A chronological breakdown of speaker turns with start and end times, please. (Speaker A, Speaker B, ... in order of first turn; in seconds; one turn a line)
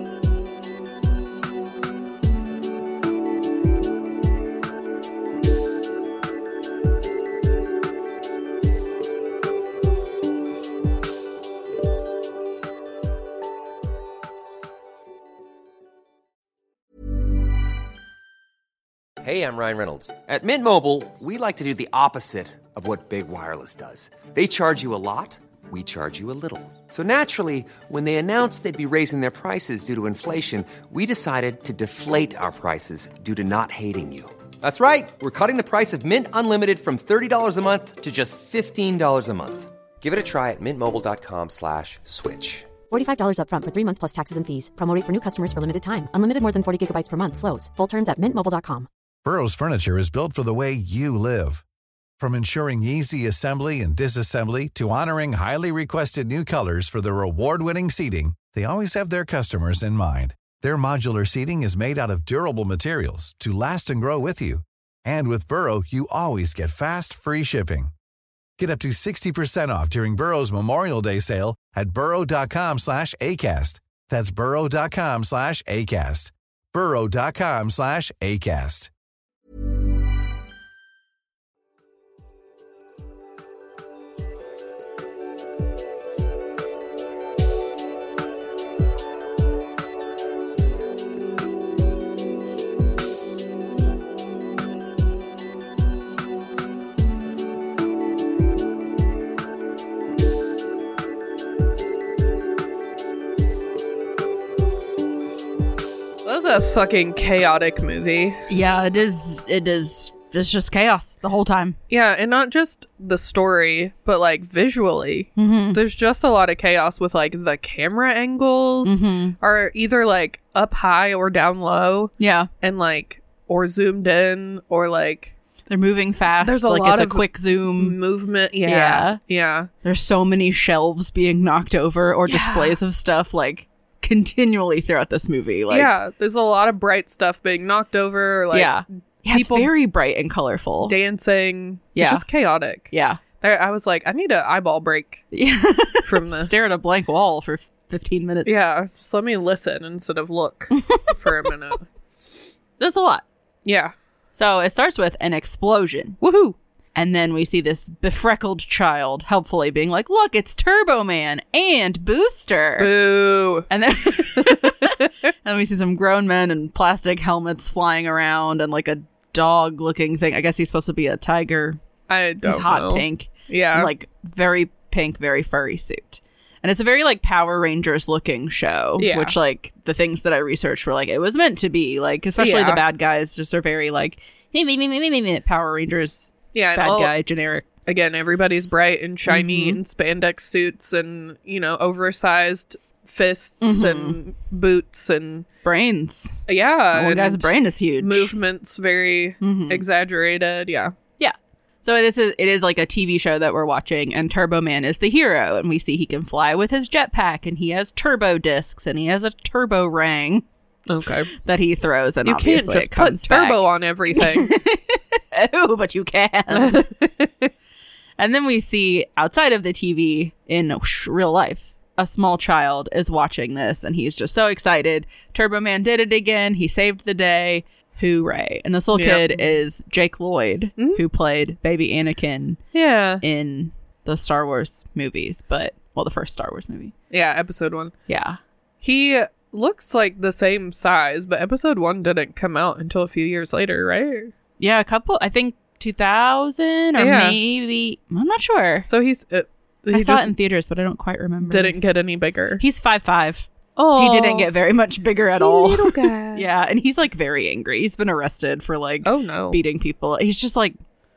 Speaker A: 19.2-42.7
Speaker B: 42.9-48.9
Speaker C: 49.2-51.6
Speaker C: 52.2-67.9
Speaker C: 68.6-78.9
Speaker D: 106.2-108.4
Speaker E: 108.5-111.8
Speaker D: 111.9-125.3
Speaker E: 115.4-115.8
Speaker E: 118.8-119.3
Speaker E: 122.2-122.5
Speaker E: 125.7-128.0
Speaker D: 126.4-129.7
Speaker E: 128.6-129.2
Speaker E: 129.8-135.9
Speaker D: 132.3-132.8
Speaker D: 135.7-138.7
Speaker E: 138.5-141.0
Speaker D: 139.3-139.7
Speaker D: 140.8-145.2
Speaker E: 141.9-142.2
Speaker E: 142.9-143.2
Speaker E: 145.3-148.6
Speaker D: 146.0-146.7
Speaker D: 148.4-151.8
Speaker E: 150.8-151.1
Speaker E: 152.8-153.2
Speaker D: 153.6-153.9
Speaker E: 154.3-156.2
Speaker D: 156.2-156.6
Speaker E: 156.9-162.9
Speaker D: 162.8-163.7
Speaker E: 163.7-171.8
Speaker D: 164.3-165.1
Speaker D: 172.1-173.9
Speaker E: 172.4-187.7
Speaker D: 179.0-179.3
Speaker D: 182.4-182.8
Speaker D: 186.5-187.1
Speaker D: 187.8-195.5
Speaker E: 189.3-189.8
Speaker E: 193.6-194.2
Speaker E: 195.6-198.3
Speaker D: 196.5-200.9
Speaker E: 199.4-199.8
Speaker E: 201.2-210.4
Speaker D: 210.9-211.3
Speaker E: 211.4-216.9
Speaker D: 212.2-214.5
Speaker D: 216.5-217.5
Speaker E: 218.2-232.6
Speaker D: 228.9-229.6
Speaker D: 232.7-233.2
Speaker E: 233.2-236.9
Speaker D: 237.1-237.9
Speaker E: 238.1-238.4
Speaker D: 238.8-244.3
Speaker E: 244.6-248.9
Speaker D: 247.0-247.4
Speaker D: 248.9-250.3
Speaker E: 249.9-251.8
Speaker D: 251.4-252.6
Speaker E: 252.6-260.7
Speaker D: 253.8-254.5
Speaker D: 255.3-256.4
Speaker D: 259.0-259.6